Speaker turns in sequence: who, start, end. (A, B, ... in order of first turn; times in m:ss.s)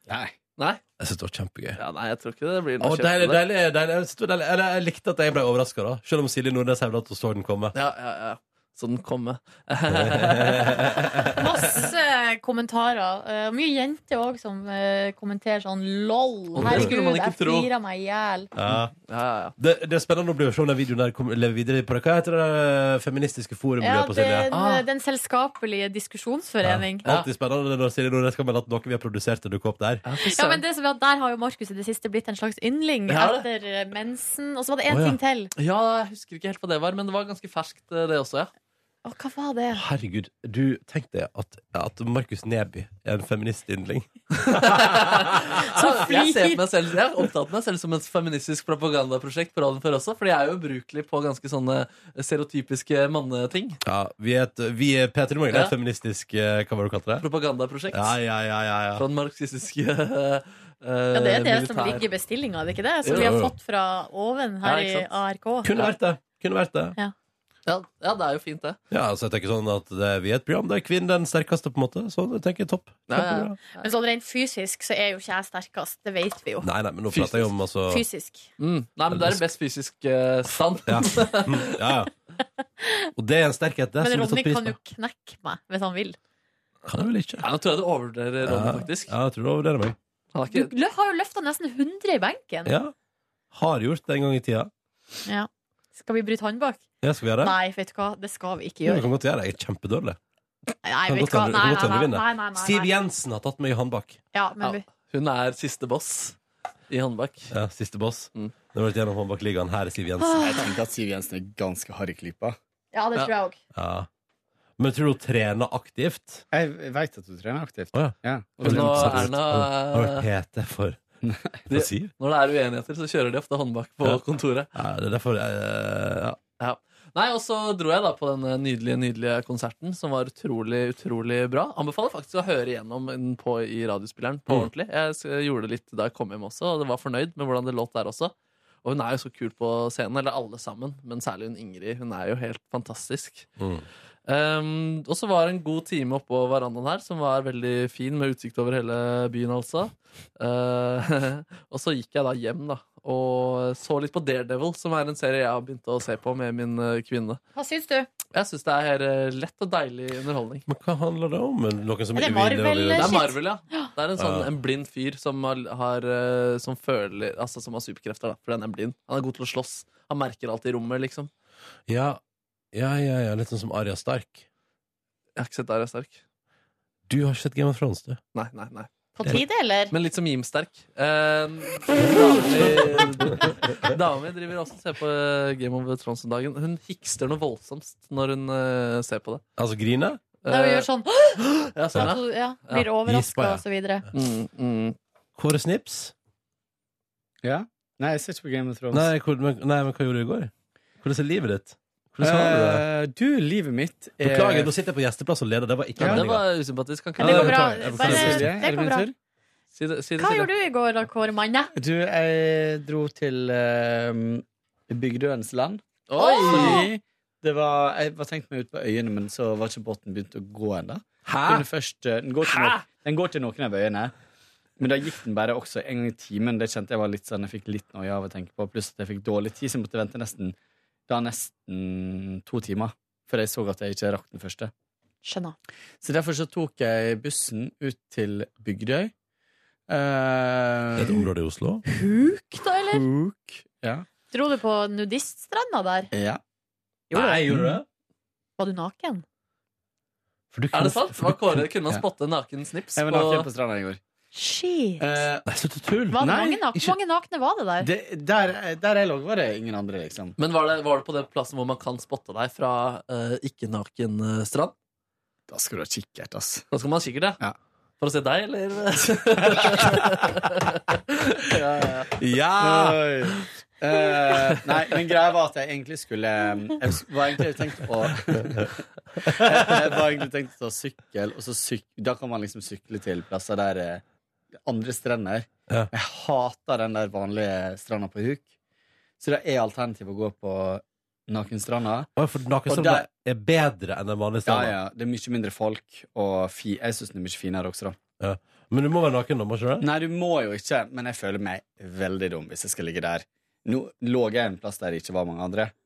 0:00.1-0:00.4 A
0:01.0-0:01.8 B
0:01.8-0:03.4 C
0:02.8-0:07.7 B
0:07.7-0:11.3 C
0:09.9-0:11.4 B
0:11.4-0:18.5 D
0:16.6-0:17.7 C
0:16.6-0:16.9 B
0:18.6-0:18.9 B
0:18.7-0:19.6 C
0:19.6-0:24.5 B
0:23.8-0:27.0 D
0:24.5-0:24.8 C
0:26.6-0:30.0 B
0:30.0-0:30.6 C
0:30.3-0:35.5 D
0:33.1-0:33.5 C
0:34.9-0:35.2 B
0:35.6-0:38.5 C
0:39.0-0:39.8 D
0:39.7-0:45.6 B
0:44.4-0:53.8 C
0:45.5-0:46.6 D
0:53.8-0:57.3 B
0:57.2-0:58.1 C
0:57.9-0:59.0 B
0:59.0-1:02.1 C
1:01.1-1:05.7 D
1:03.1-1:03.4 C
1:03.1-1:03.5 B
1:04.6-1:05.1 C
1:05.6-1:07.0 B
1:07.7-1:08.8 C
1:08.9-1:13.6 B
1:13.1-1:13.6 C
1:13.2-1:16.7 D
1:16.6-1:18.0 B
1:17.1-1:17.5 C
1:17.9-1:18.5 D
1:18.6-1:21.8 C
1:19.1-1:19.4 B
1:20.9-1:22.1 B
1:22.8-1:23.1 D
1:23.2-1:24.8 B
1:24.0-1:26.2 D
1:26.9-1:27.4 B
1:27.4-1:29.1 C
1:28.4-1:30.0 B
1:30.3-1:30.7 C
1:30.5-1:32.7 D
1:32.7-1:32.9 B
1:33.5-1:34.7 B
1:35.3-1:36.8 D
1:37.0-1:37.6 B
1:37.4-1:39.1 D
1:38.9-1:40.2 B
1:40.8-1:42.9 D
1:41.1-1:44.2 B
1:44.3-1:44.8 D
1:44.6-1:46.4 C
1:46.9-1:47.5 C
1:47.5-1:50.5 B
1:50.2-1:50.6 D
1:50.4-1:52.6 A
1:52.9-1:53.6 D
1:53.8-1:54.1 B
1:54.8-1:56.4 B
1:56.5-1:59.3 A
1:57.9-2:01.0 B
1:58.6-2:00.3 C
2:01.2-2:01.6 A
2:01.7-2:02.1 B
2:01.7-2:04.7 C
2:04.8-2:06.4 B
2:06.6-2:23.5 C
2:23.6-2:23.9 B
2:24.3-2:37.4 C
2:37.6-2:38.1 D
2:38.3-2:40.7 C
2:40.7-2:43.2 B
2:42.2-2:43.9 D
2:43.0-2:51.3 C
2:44.2-2:44.5 B
2:51.9-2:52.2 B
2:52.7-2:54.4 B
2:55.4-2:56.2 C
2:57.1-2:58.2 B
2:58.4-3:09.4 C
2:59.2-2:59.9 D
3:02.6-3:03.3 B
3:09.6-3:10.2 B
3:10.4-3:10.9 C
3:10.5-3:11.4 D
3:11.4-3:12.9 C
3:12.0-3:14.0 D
3:13.0-3:13.6 B
3:14.1-3:15.0 C
3:15.4-3:16.1 B
3:17.4-3:19.1 A
3:18.9-3:20.5 B
3:21.0-3:22.8 B
3:22.2-3:24.7 A
3:24.2-3:26.5 B
3:26.0-3:27.8 C
3:27.2-3:29.1 D
3:27.2-3:28.4 B
3:28.0-3:29.1 A
3:29.8-3:30.5 C
3:30.2-3:31.7 D
3:31.8-3:35.8 A
3:36.1-3:36.9 C
3:36.2-3:36.9 D
3:36.5-3:44.1 A
3:41.3-3:41.7 B
3:44.8-3:50.6 A
3:51.1-3:54.7 A
3:55.2-3:55.6 D
3:56.0-3:59.1 A
3:59.9-4:01.3 A
4:01.0-4:01.8 B
4:01.9-4:03.1 D
4:02.9-4:04.1 A
4:04.3-4:06.1 D
4:06.1-4:06.4 A
4:07.1-4:07.4 D
4:07.1-4:07.8 B
4:08.6-4:09.2 D
4:10.5-4:11.6 B
4:10.7-4:13.5 C
4:13.0-4:14.0 A
4:14.3-4:15.2 D
4:15.0-4:15.5 A
4:15.5-4:17.0 B
4:16.1-4:17.9 D
4:16.2-4:16.6 A
4:17.8-4:20.4 A
4:20.4-4:24.7 C
4:25.5-4:26.7 A
4:26.7-4:27.4 C
4:28.0-4:32.1 C
4:29.4-4:29.7 A
4:32.2-4:33.0 B
4:32.6-4:38.7 A
4:39.2-4:39.9 B
4:39.3-4:44.0 A
4:44.6-4:48.5 A
4:49.2-4:52.1 A
4:52.2-4:54.8 B
4:52.7-4:53.1 A
4:54.5-4:58.0 A
4:58.2-4:59.9 B
4:59.8-5:05.7 A